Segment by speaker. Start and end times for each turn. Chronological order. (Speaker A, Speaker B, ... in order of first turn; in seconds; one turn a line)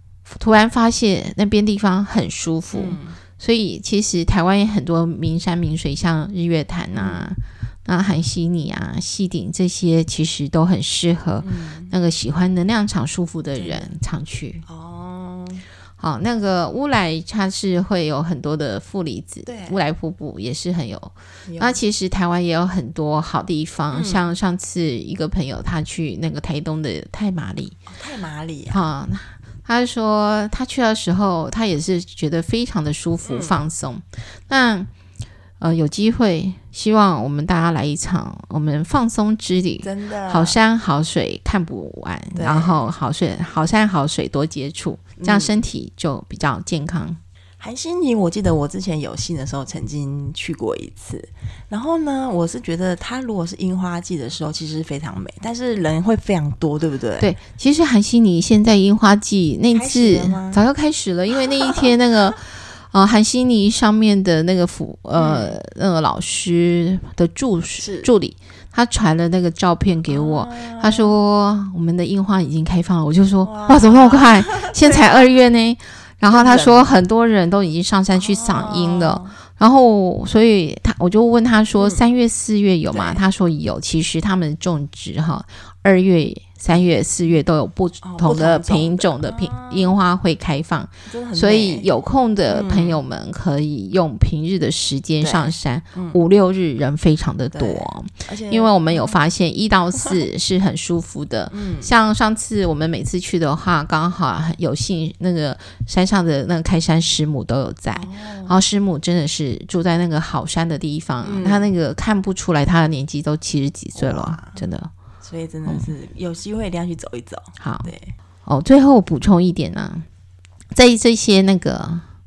Speaker A: 0.3-14.6
Speaker B: 2.7-3.2
Speaker B: 6.9-7.3
Speaker B: 11.4-11.9
Speaker B: 13.6-13.9
Speaker B: 14.6-15.6
Speaker A: 16.0-27.8
Speaker B: 19.4-19.8
Speaker B: 21.5-21.8
Speaker B: 23.9-24.3
Speaker B: 27.9-28.8
Speaker A: 28.7-34.9
Speaker B: 33.2-33.6
Speaker A: 35.6-47.2
Speaker B: 39.8-40.6
Speaker B: 42.3-42.8
Speaker B: 45.2-45.6
Speaker B: 47.6-57.3
Speaker A: 57.2-114.9
Speaker B: 59.7-60.6
Speaker B: 65.2-65.6
Speaker B: 67.8-68.1
Speaker B: 70.1-71.2
Speaker B: 73.4-75.2
Speaker B: 76.2-76.9
Speaker B: 78.1-79.3
Speaker B: 81.8-82.0
Speaker B: 82.9-83.2
Speaker B: 86.7-87.0
Speaker B: 88.0-89.9
Speaker B: 91.1-91.9
Speaker B: 92.5-93.0
Speaker B: 95.2-96.2
Speaker B: 97.5-99.2
Speaker B: 101.5-101.9
Speaker B: 107.9-108.6
Speaker B: 111.2-111.7
Speaker B: 113.9-114.6
Speaker B: 115.2-118.1
Speaker A: 115.6-115.9
Speaker A: 117.6-117.9
Speaker A: 118.5-120.0
Speaker A: 120.7-122.0